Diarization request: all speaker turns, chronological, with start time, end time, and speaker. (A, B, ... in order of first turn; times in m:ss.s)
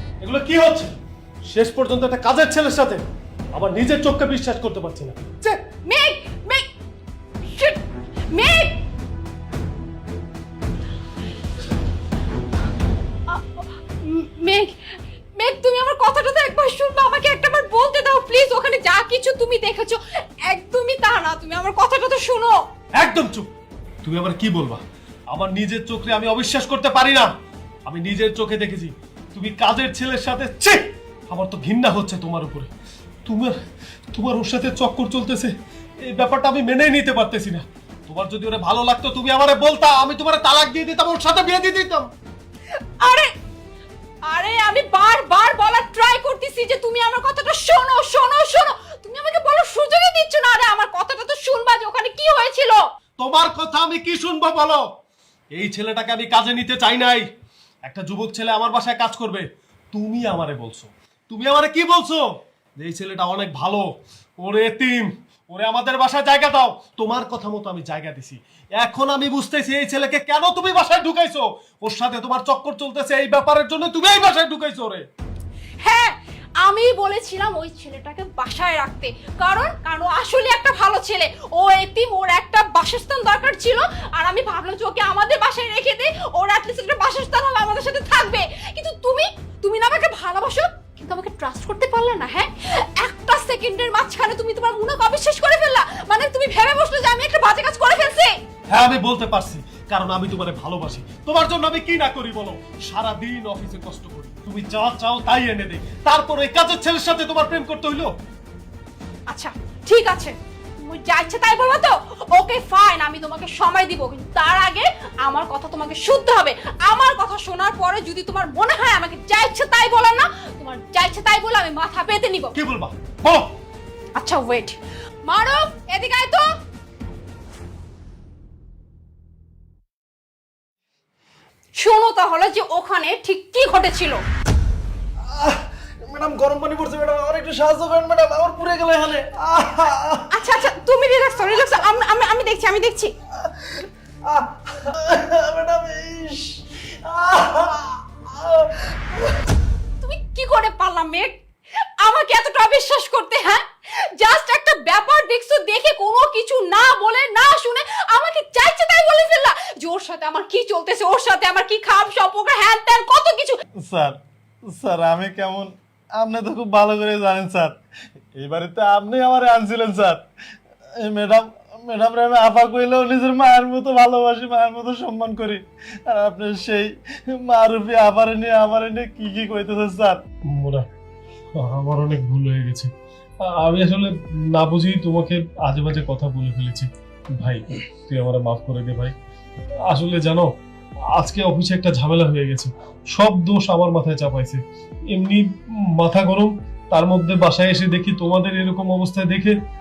0:00.2-0:00.9 A
0:01.5-0:05.6 A
0:05.8-0:06.6 B
0:07.5-0:08.8 B
0:13.3-0:14.8 B
0:15.4-0:22.6 B
0:23.0-0:23.5 A
0:24.0-0:27.3 A
0:27.8-0:32.7 A
0:33.2-0:33.6 A
0:34.1-0:42.1 A
0:43.0-0:43.3 B
0:44.3-0:52.8 B
0:53.2-0:54.8 A
0:55.5-0:57.2 A
0:57.8-1:02.2 A
1:02.8-1:03.9 A
1:04.4-1:15.0 A
1:15.8-1:38.3 B
1:38.7-1:48.1 A
1:49.3-2:02.5 B
2:02.5-2:03.5 A
2:04.2-2:06.4 B
2:11.8-2:14.2 B
2:15.3-2:20.3 C
2:20.3-2:23.1 B
2:24.3-2:29.2 C
2:30.0-2:31.4 B
2:32.0-2:43.6 B
2:43.8-2:44.2 C
2:44.7-2:47.8 C
2:48.4-2:50.2 C
2:51.0-3:00.2 C
3:00.5-3:00.9 A
3:01.5-3:02.9 A
3:03.4-3:09.1 A
3:09.9-3:10.5 A
3:11.2-3:14.6 A
3:15.1-3:15.5 A
3:16.0-3:19.6 A